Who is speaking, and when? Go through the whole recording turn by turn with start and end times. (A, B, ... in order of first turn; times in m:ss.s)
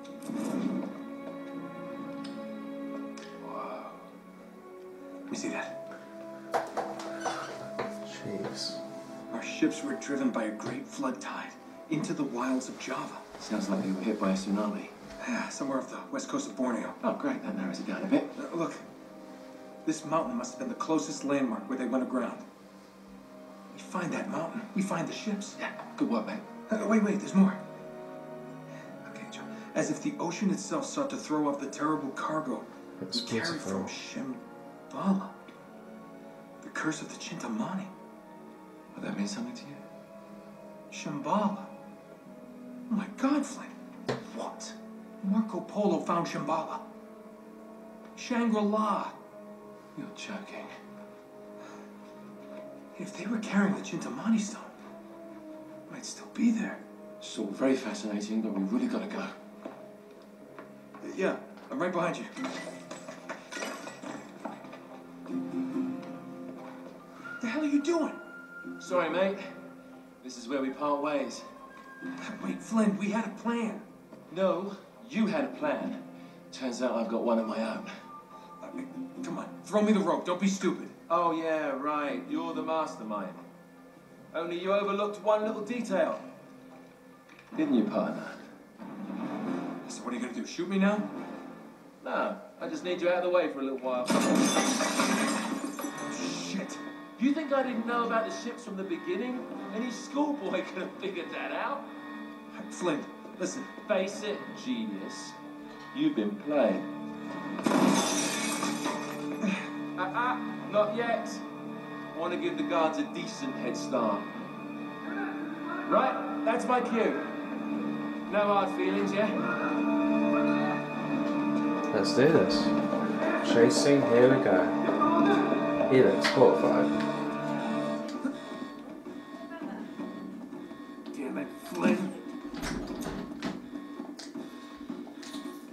0:03.4-0:04.0 A
0:05.3-0:05.8 B
0:08.0-0:08.8 C
0:09.3-0:13.2 B
0:13.4-0:14.9 A
0:15.2-0:17.0 B
0:17.0-0:18.3 A
0:18.4-0:18.8 B
0:19.8-0:22.4 B
0:23.7-0:25.6 B
0:25.6-0:26.4 A
0:26.7-0:27.6 B
0:29.0-0:35.4 B
0:33.0-0:33.9 C
0:36.6-0:37.9 B
0:38.9-0:39.8 A
0:40.9-0:41.7 B
0:42.9-0:46.8 B
0:48.2-0:49.2 B
0:49.9-0:50.7 A
0:52.9-0:54.8 B
0:55.9-0:56.8 B
0:57.2-0:59.3 A
1:01.0-1:02.4 B
1:07.4-1:08.2 B
1:08.8-1:09.6 A
1:10.2-1:11.5 A
1:12.2-1:13.8 B
1:14.3-1:17.9 A
1:18.6-1:21.0 B
1:21.1-1:23.4 A
1:24.3-1:26.2 A
1:27.5-1:28.5 A
1:29.8-1:31.1 B
1:32.0-1:34.3 A
1:36.1-1:36.8 B
1:37.2-1:41.9 A
1:42.5-1:43.8 B
1:43.8-1:45.4 A
1:45.9-1:46.9 A
1:49.9-1:51.4 A
1:52.1-1:54.3 A
1:55.8-1:57.3 A
1:58.3-1:59.5 A
2:01.9-2:02.8 C
2:03.4-2:04.8 C
2:05.9-2:07.0 C
2:11.1-2:12.1 A